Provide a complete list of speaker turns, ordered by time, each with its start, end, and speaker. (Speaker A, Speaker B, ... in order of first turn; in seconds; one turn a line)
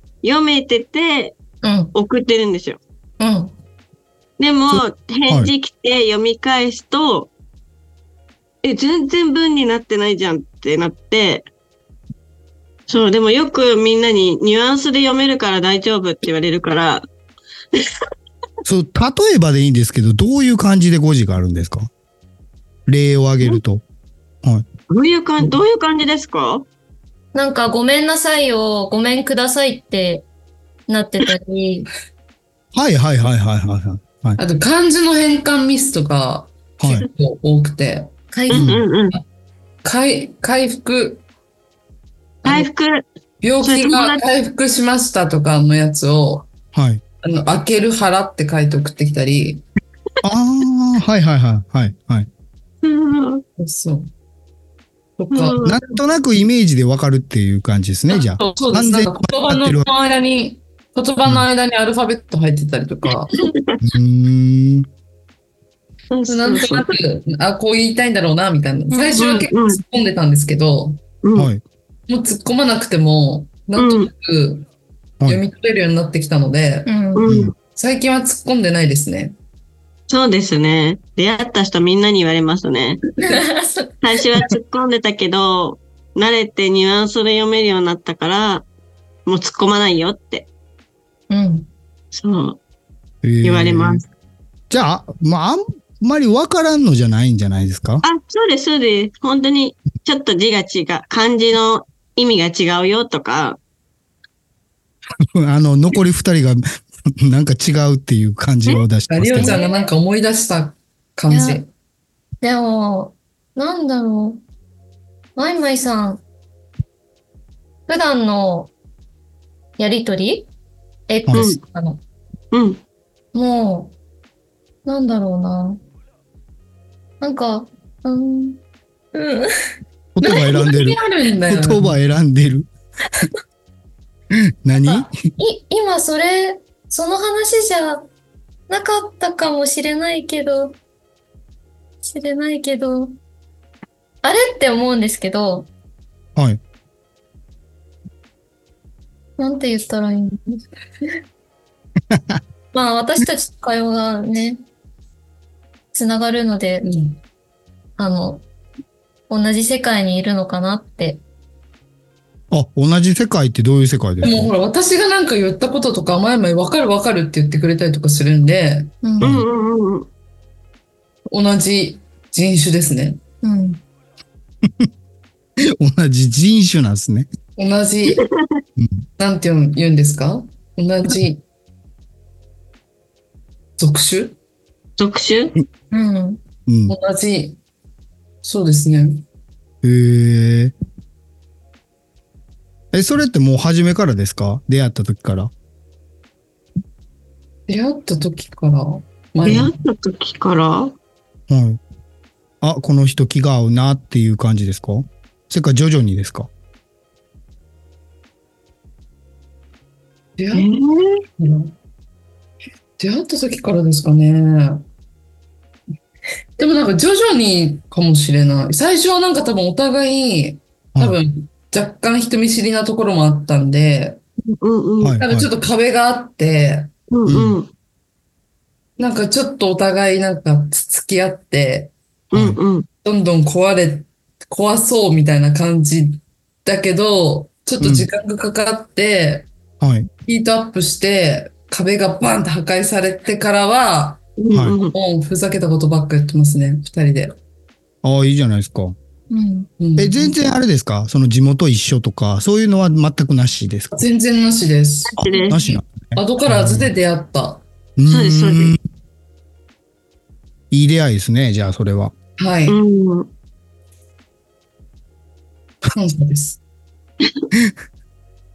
Speaker A: 0.2-1.4
Speaker B: 1.6-1.9
Speaker A: 1.9-2.8
Speaker B: 3.2-3.5
Speaker A: 4.4-7.3
Speaker C: 4.7-5.5
Speaker A: 8.6-11.5
Speaker A: 12.9-17.1
Speaker C: 18.6-21.9
Speaker C: 22.9-23.8
Speaker A: 24.9-26.7
Speaker B: 27.3-30.3
Speaker B: 30.9-31.9
Speaker C: 32.7-34.4
Speaker D: 34.4-38.1
Speaker C: 36.8-37.1
Speaker B: 38.3-38.7
Speaker A: 38.5-39.2
Speaker C: 38.5-38.9
Speaker D: 39.8-41.2
Speaker D: 42.4-42.7
Speaker A: 42.4-43.0
Speaker D: 43.4-46.5
Speaker A: 43.6-44.2
Speaker C: 46.7-47.0
Speaker D: 47.2-49.6
Speaker C: 50.2-52.3
Speaker A: 52.8-53.4
Speaker D: 53.6-54.1
Speaker D: 55.2-55.6
Speaker A: 55.3-56.0
Speaker C: 55.6-59.9
Speaker D: 58.1-63.5
Speaker A: 63.4-63.8
Speaker C: 63.8-64.9
Speaker A: 66.1-66.9
Speaker D: 66.3-71.0
Speaker B: 68.9-69.3
Speaker A: 69.2-69.8
Speaker A: 71.2-71.5
Speaker C: 71.3-71.6
Speaker D: 72.1-74.7
Speaker A: 73.8-74.1
Speaker D: 75.2-76.9
Speaker B: 76.9-77.3
Speaker A: 77.2-77.5
Speaker C: 77.3-77.5
Speaker D: 77.7-79.3
Speaker A: 80.1-83.0
Speaker B: 83.2-84.2
Speaker A: 84.0-88.7
Speaker A: 89.3-90.5
Speaker B: 91.3-91.7
Speaker A: 92.1-92.6
Speaker C: 93.2-94.0
Speaker A: 93.4-94.0
Speaker C: 94.7-98.0
Speaker A: 98.0-103.6
Speaker C: 105.3-106.6
Speaker C: 107.2-109.6
Speaker D: 109.1-111.7
Speaker B: 109.4-109.9
Speaker B: 111.3-111.6
Speaker B: 112.4-114.4
Speaker B: 115.4-116.2
Speaker B: 117.9-118.7
Speaker B: 119.8-120.5
Speaker B: 121.1-122.0
Speaker C: 121.3-121.5
Speaker A: 121.3-121.6
Speaker A: 122.5-122.8
Speaker B: 123.3-124.0
Speaker B: 124.8-125.8
Speaker B: 127.2-128.6
Speaker B: 129.1-129.5
Speaker C: 130.2-132.7
Speaker D: 130.2-132.0
Speaker C: 134.3-135.1
Speaker B: 134.8-138.1
Speaker B: 138.7-140.8
Speaker B: 142.0-143.1
Speaker B: 144.2-145.7
Speaker B: 149.4-151.2
Speaker C: 152.1-152.4
Speaker B: 152.7-154.6
Speaker B: 155.9-156.9
Speaker D: 156.8-157.2
Speaker B: 158.0-158.4
Speaker B: 159.3-161.2
Speaker C: 162.5-164.5
Speaker D: 164.2-168.9
Speaker B: 169.0-169.3
Speaker C: 169.2-169.5
Speaker A: 169.2-170.1
Speaker D: 171.3-173.2
Speaker B: 173.4-173.8
Speaker C: 174.6-174.9
Speaker C: 175.6-177.3
Speaker D: 177.6-178.3
Speaker C: 178.8-179.0
Speaker D: 179.2-181.4
Speaker D: 183.8-184.4
Speaker A: 185.0-185.6
Speaker B: 185.9-186.4
Speaker C: 186.7-187.0
Speaker D: 186.9-187.6
Speaker D: 188.4-189.2
Speaker C: 189.8-190.7
Speaker C: 192.9-195.5
Speaker D: 197.7-199.7
Speaker A: 199.4-200.9
Speaker C: 201.5-201.8
Speaker C: 202.6-206.5
Speaker D: 210.4-210.7
Speaker A: 210.5-211.2
Speaker D: 211.4-211.7
Speaker D: 213.0-214.8
Speaker D: 216.6-224.2
Speaker A: 224.5-225.2
Speaker C: 225.0-225.5
Speaker D: 225.2-226.9
Speaker A: 227.1-227.7
Speaker C: 227.3-227.6
Speaker D: 229.0-231.9
Speaker C: 232.3-232.6
Speaker A: 232.3-232.9
Speaker D: 233.0-239.5
Speaker C: 237.8-238.1
Speaker C: 239.8-240.1
Speaker D: 240.2-244.2
Speaker A: 244.4-244.9
Speaker C: 244.5-244.8
Speaker D: 244.9-247.3
Speaker C: 248.0-248.9
Speaker B: 249.3-249.7
Speaker D: 249.8-250.4
Speaker C: 250.0-254.0
Speaker D: 253.9-255.3
Speaker A: 255.2-255.6
Speaker C: 255.2-256.9
Speaker B: 255.3-255.6
Speaker D: 256.1-257.6
Speaker C: 258.0-258.8
Speaker A: 258.1-258.7
Speaker C: 260.7-262.1
Speaker D: 262.4-262.8
Speaker A: 262.7-263.3
Speaker D: 265.9-266.6